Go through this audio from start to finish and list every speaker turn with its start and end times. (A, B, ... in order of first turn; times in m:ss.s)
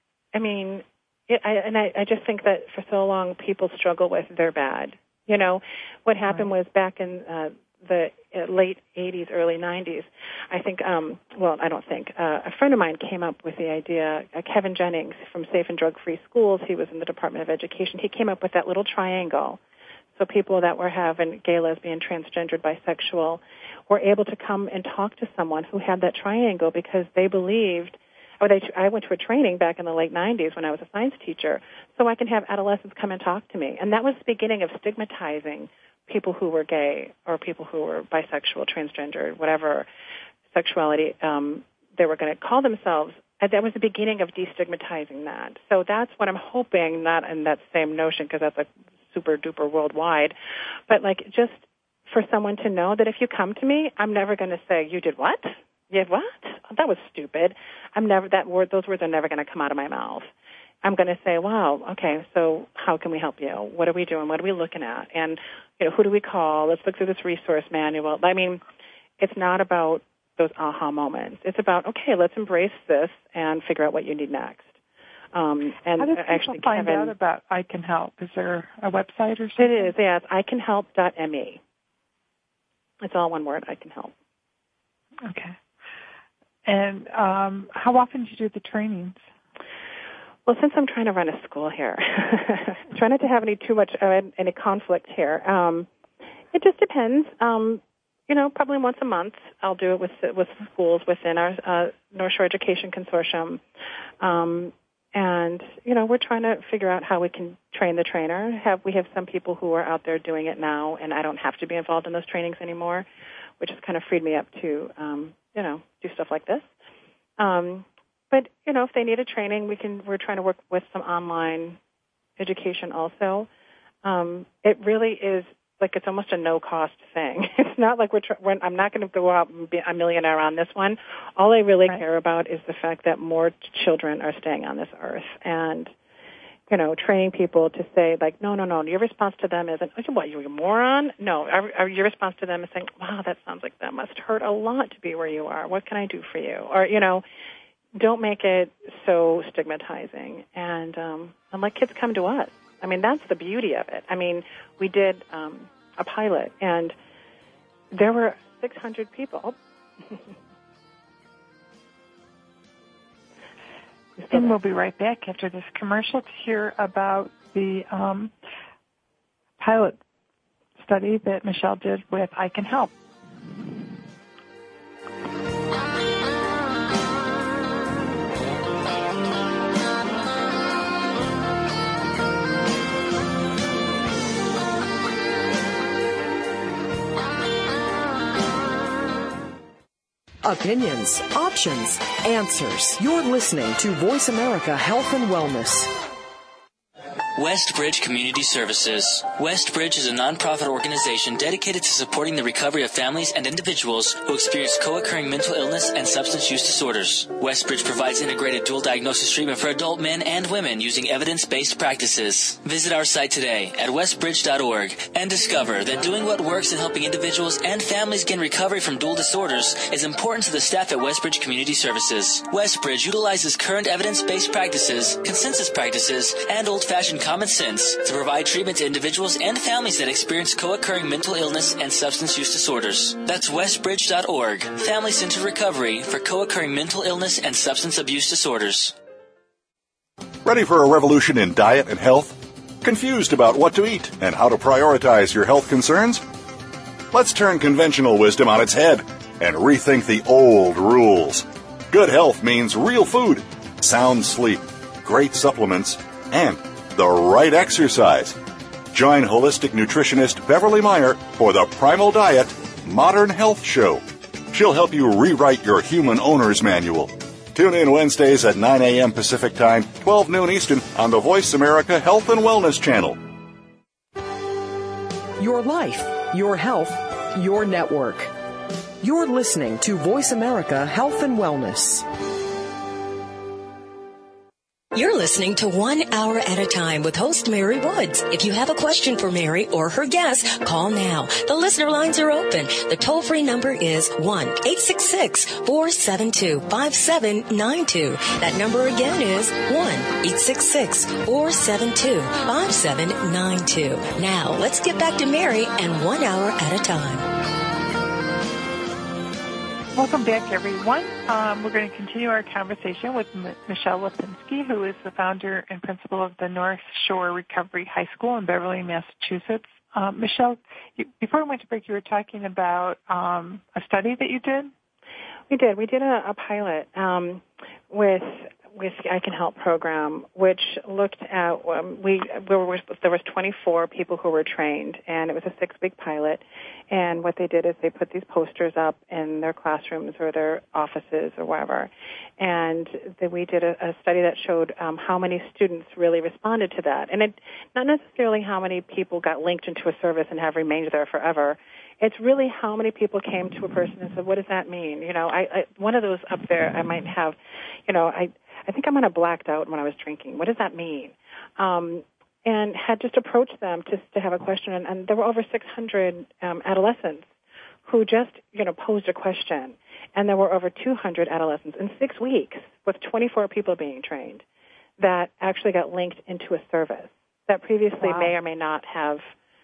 0:00.3-0:19.6 A
0:20.2-0:39.9 A
0:40.5-0:50.4 A
0:50.9-1:00.3 A
1:00.8-1:08.6 A
1:09.2-1:14.8 A
1:15.3-1:17.1 A
1:16.0-1:19.9 B
1:19.6-1:21.6 A
1:23.0-1:24.1 A
1:25.2-1:25.6 B
1:26.7-1:29.2 B
1:30.5-1:35.9 A
1:36.5-1:43.6 A
1:44.2-1:53.1 A
1:53.6-1:56.7 A
1:57.4-2:01.8 A
2:02.4-2:03.5 A
2:04.0-2:15.9 A
2:16.7-2:27.2 A
2:28.0-2:37.0 A
2:37.9-2:39.6 A
2:44.2-2:44.5 A
2:44.3-2:48.3 B
2:49.6-2:50.0 B
2:50.8-2:52.9 B
3:10.4-3:15.9 C
3:17.4-3:59.0 D
4:00.4-4:06.2 E
4:07.1-4:18.4 E
4:18.9-4:33.2 E
4:35.4-4:38.3 C
4:39.0-4:42.0 C
4:44.9-5:07.3 F
5:09.9-5:24.7 B
5:25.5-5:57.4 A
5:57.9-6:07.3 A
6:07.8-6:14.4 A
6:15.0-6:19.3 A
6:18.0-6:18.3 B